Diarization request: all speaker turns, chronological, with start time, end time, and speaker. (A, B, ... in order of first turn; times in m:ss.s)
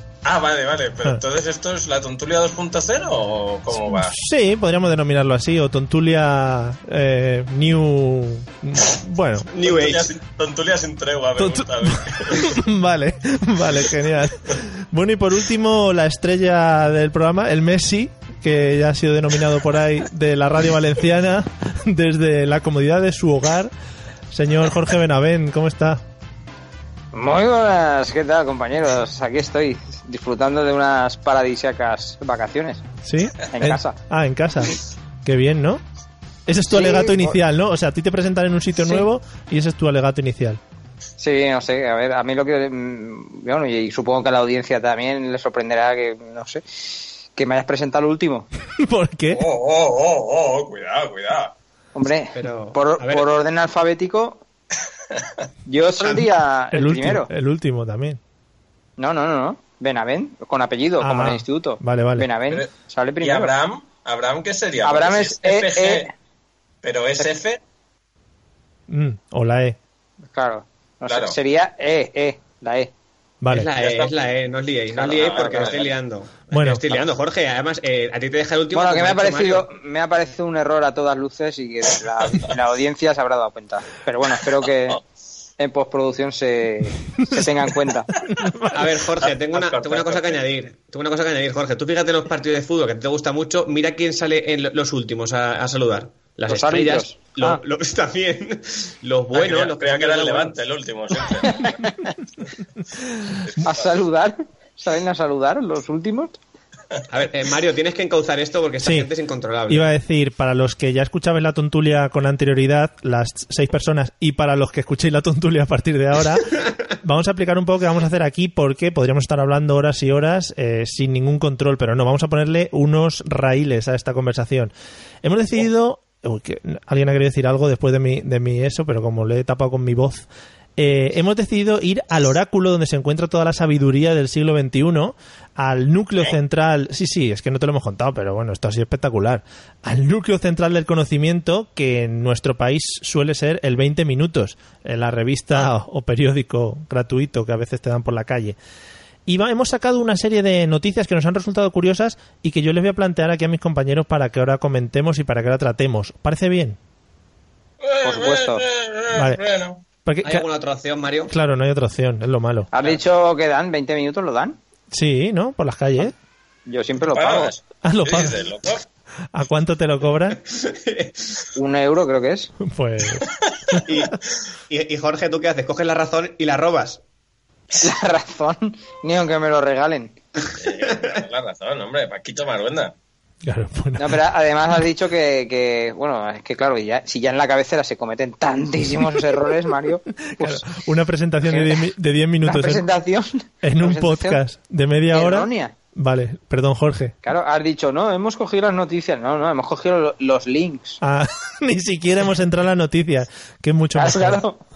0:00.2-0:04.2 A
0:03.7-0:09.5 B
0:09.5-0:10.1 C
0:09.6-0:12.6 A
0:11.4-0:23.7 B
0:24.3-0:26.0 B
0:27.1-0:32.8 D
0:33.0-0:35.8 B
0:33.4-0:34.0 D
0:36.5-0:40.6 B
0:36.7-0:37.4 D
0:41.2-0:48.5 D
0:48.8-0:49.4 B
0:49.3-0:51.5 A
0:51.9-0:54.4 D
0:52.3-0:53.3 C
0:55.7-0:57.3 D
0:56.0-0:56.3 C
0:56.7-0:58.2 B
0:59.0-1:03.5 D
1:01.0-1:02.3 B
1:03.2-1:06.1 A
1:04.8-1:06.1 D
1:06.8-1:07.6 A
1:08.9-1:09.8 B
1:10.3-1:12.9 D
1:11.1-1:11.4 A
1:13.4-1:13.7 B
1:13.5-1:19.6 C
1:13.8-1:14.1 A
1:14.9-1:15.9 D
1:15.1-1:15.9 A
1:16.5-1:16.9 B
1:18.7-1:25.0 D
1:25.6-1:28.1 D
1:27.2-1:27.5 B
1:28.1-1:28.9 B
1:28.7-1:40.6 C
1:29.2-1:30.4 A
1:36.5-1:37.6 D
1:39.3-1:41.8 A
1:41.4-1:42.2 D
1:43.6-1:46.4 D
1:47.1-1:49.9 C
1:48.8-1:49.1 B
1:49.7-2:10.2 B
2:10.8-2:28.6 B
2:29.2-2:36.8 B
2:37.8-2:39.8 A
2:38.0-2:38.6 D
2:39.1-2:39.4 B
2:40.0-2:40.5 B
2:40.2-2:41.3 C
2:41.3-2:42.7 B
2:42.7-2:44.6 D
2:44.9-2:46.1 B
2:46.7-2:47.5 D
2:47.0-2:48.8 A
2:47.8-2:48.5 B
2:49.3-2:50.4 B
2:50.5-2:51.4 C
2:51.5-2:52.5 D
2:52.6-2:54.0 B
2:53.2-2:53.8 A
2:53.8-2:57.0 C
2:57.8-3:00.1 D
3:00.6-3:02.9 A
3:03.4-3:04.2 B
3:04.0-3:10.6 D
3:10.2-3:12.8 B
3:11.4-3:11.9 D
3:12.4-3:14.4 D
3:13.6-3:17.2 B
3:15.1-3:15.7 D
3:17.2-3:21.0 D
3:21.0-3:24.4 B
3:23.9-3:24.6 D